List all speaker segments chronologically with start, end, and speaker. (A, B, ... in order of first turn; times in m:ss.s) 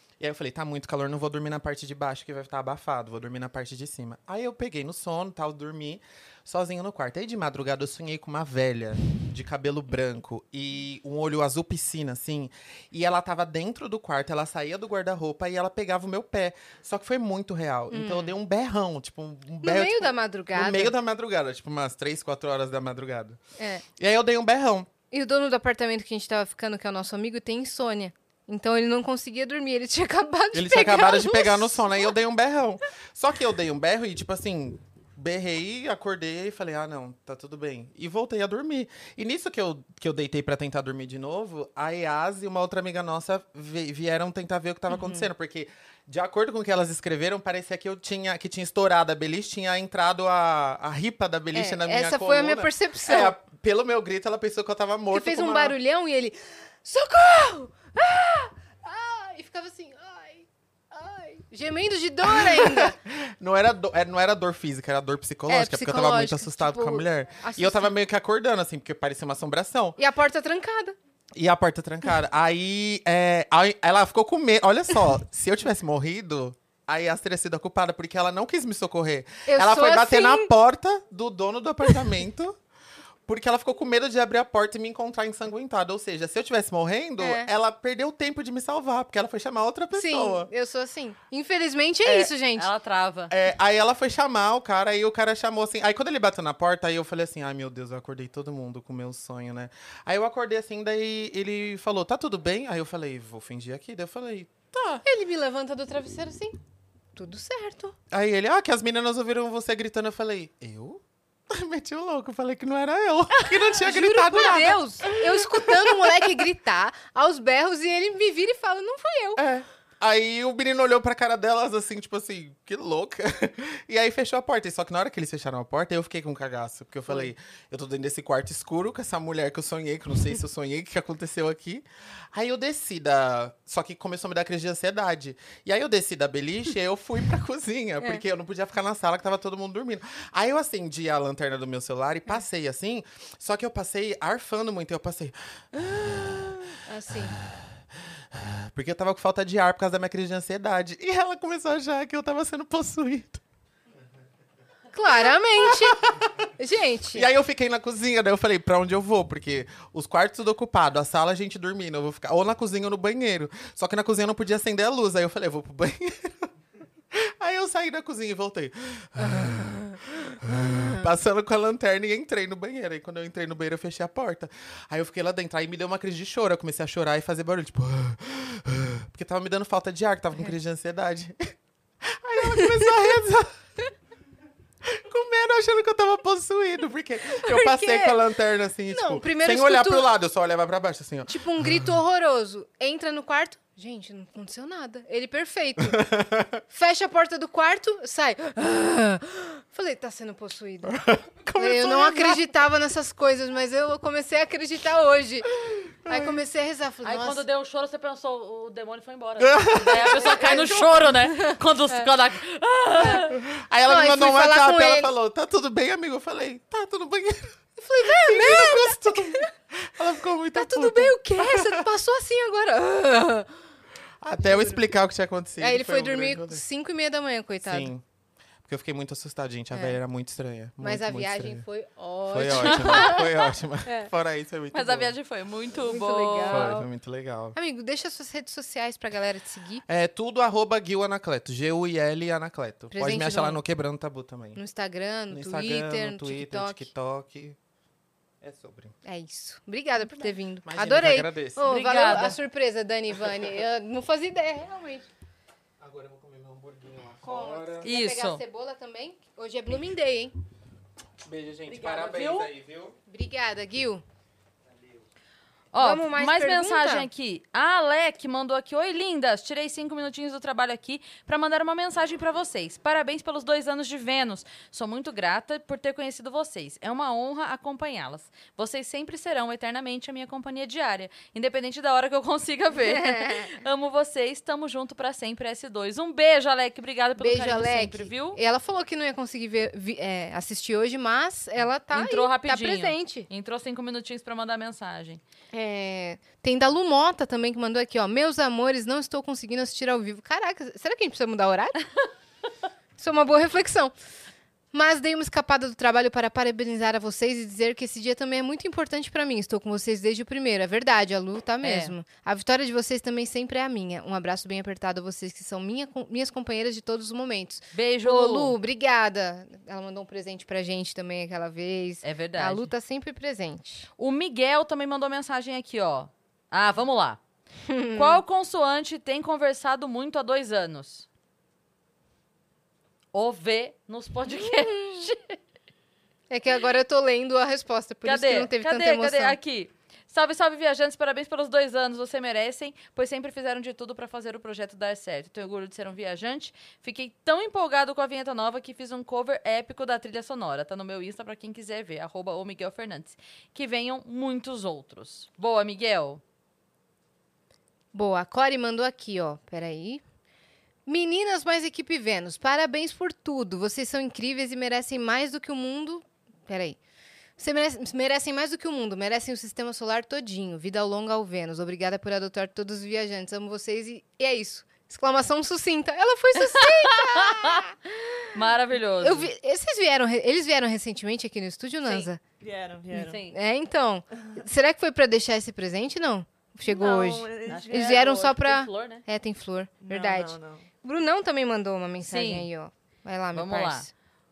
0:00.2-0:23.4 A
0:17.9-0:18.4 B
0:19.6-0:20.9 B
0:23.6-0:23.8 B
0:24.0-0:24.9 A
0:25.1-0:32.1 B
0:30.5-0:55.8 A
0:44.9-0:45.3 B
0:51.5-0:53.4 B
0:55.1-1:03.0 B
1:02.2-1:10.0 A
1:05.5-1:07.9 B
1:10.0-1:10.9 B
1:11.4-1:22.6 A
1:19.5-1:20.5 B
1:23.3-1:30.5 A
1:27.2-1:27.5 B
1:29.9-1:32.7 B
1:32.0-1:33.3 C
1:33.3-1:45.0 A
1:45.0-1:46.6 B
1:47.2-1:47.9 B
1:48.1-1:56.4 A
1:53.4-1:59.4 B
1:59.4-2:27.6 A
2:07.1-2:07.3 B
2:26.8-2:27.3 B
2:28.3-2:33.4 A
2:34.9-2:36.0 B
2:35.6-2:36.2 A
2:36.6-2:37.3 B
2:37.1-2:46.5 A
2:47.1-3:03.5 A
2:49.2-2:50.0 B
2:50.5-2:51.1 B
3:02.4-3:02.9 B
3:04.8-3:11.9 A
3:07.3-3:08.3 B
3:08.9-3:10.1 B
3:11.3-3:16.0 B
3:15.8-3:16.6 A
3:16.7-3:21.0 B
3:20.8-3:22.5 A
3:21.6-3:25.5 B
3:26.0-3:26.4 A
3:26.1-3:27.4 B
3:27.0-3:33.4 C
3:29.4-3:30.6 A
3:30.0-3:32.1 B
3:33.0-3:33.3 B
3:33.3-3:41.8 A
3:33.8-3:35.1 B
3:37.8-3:39.5 B
3:40.5-3:43.5 B
3:44.2-3:46.6 A
3:44.4-3:44.8 B
3:45.6-3:47.9 B
3:47.6-3:48.0 A
3:48.6-3:51.6 A
3:49.7-3:50.0 B
3:50.8-3:54.1 B
3:52.3-3:55.1 A
3:52.6-3:53.1 C
3:54.7-3:56.7 C
3:55.7-3:56.9 B
3:56.5-3:57.6 A
3:57.5-3:59.8 B
3:59.9-4:04.6 A
4:02.9-4:03.6 B
4:04.6-4:06.9 B
4:05.3-4:07.6 A
4:08.4-4:08.9 A
4:09.0-4:15.1 B
4:10.6-4:11.7 A
4:11.6-4:12.4 C
4:15.8-4:17.9 A
4:17.2-4:20.3 B
4:17.8-4:18.4 C
4:21.2-4:22.9 A
4:21.7-4:22.5 C
4:23.1-4:24.0 B
4:25.7-4:48.4 C
4:25.8-4:27.1 B
4:42.8-4:43.5 B
4:47.2-4:53.3 B
4:51.9-4:55.2 C
4:55.5-5:01.8 B
5:03.0-5:03.9 B
5:04.7-5:23.9 B
5:11.6-5:11.9 C
5:17.7-5:18.6 C
5:22.0-5:22.7 C
5:24.0-5:27.2 C
5:27.7-5:28.2 B
5:28.0-5:31.1 C
5:33.1-5:35.4 C
5:34.4-5:34.7 B
5:36.3-5:39.4 B
5:38.0-5:56.2 C
5:57.9-6:00.0 B
6:00.8-6:06.8 B
6:07.4-6:17.7 B
6:16.5-6:17.6 C
6:18.3-6:19.3 C
6:19.0-6:22.2 B
6:22.4-6:23.2 D
6:22.9-6:23.3 C
6:23.3-6:33.9 B
6:26.6-6:28.2 D
6:27.5-6:29.0 C
6:29.8-6:30.6 D
6:32.0-6:32.5 C
6:33.3-6:33.9 C